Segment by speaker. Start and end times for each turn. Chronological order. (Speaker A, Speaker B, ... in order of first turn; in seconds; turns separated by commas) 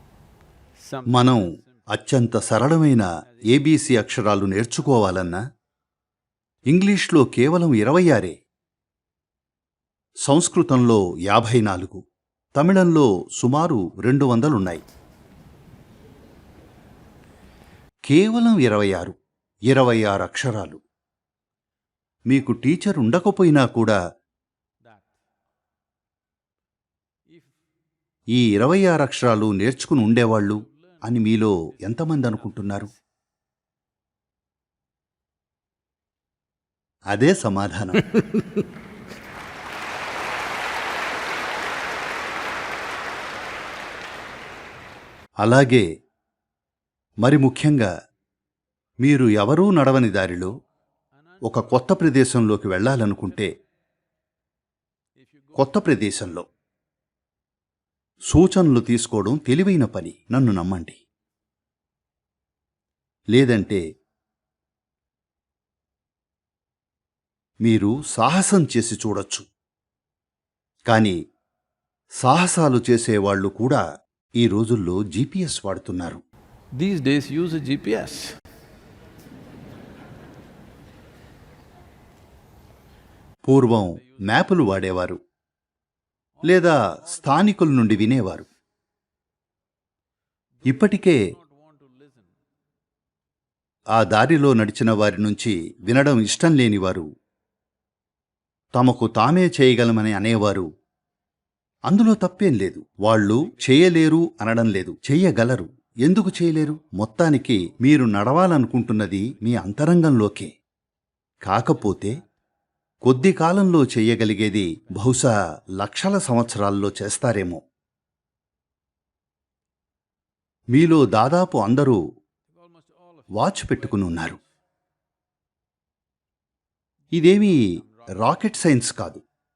Speaker A: 0.8-1.3, Speaker B: 1.1-5.4, Speaker B: 6.7-8.4, Speaker B: 10.2-12.0, Speaker B: 12.6-14.8, Speaker B: 18.1-19.2, Speaker B: 19.7-20.8, Speaker B: 22.3-24.0, Speaker B: 28.3-32.9, Speaker B: 37.1-38.2, Speaker B: 45.4-45.9, Speaker B: 47.2-47.9, Speaker B: 49.0-50.5, Speaker B: 51.5-53.5, Speaker B: 55.6-56.5, Speaker B: 58.3-61.0, Speaker B: 63.3-63.8, Speaker B: 67.6-69.5, Speaker B: 70.9-71.2, Speaker B: 72.2-73.8, Speaker B: 74.4-76.2, Speaker A: 76.8-78.3, Speaker B: 83.5-85.2, Speaker B: 86.4-88.5, Speaker B: 90.7-91.3, Speaker A: 91.4-92.3, Speaker B: 94.0-97.1, Speaker B: 98.8-100.7, Speaker B: 101.9-110.5, Speaker B: 111.5-112.2, Speaker B: 113.0-117.6, Speaker B: 120.7-122.0, Speaker B: 123.3-124.4, Speaker B: 127.1-129.2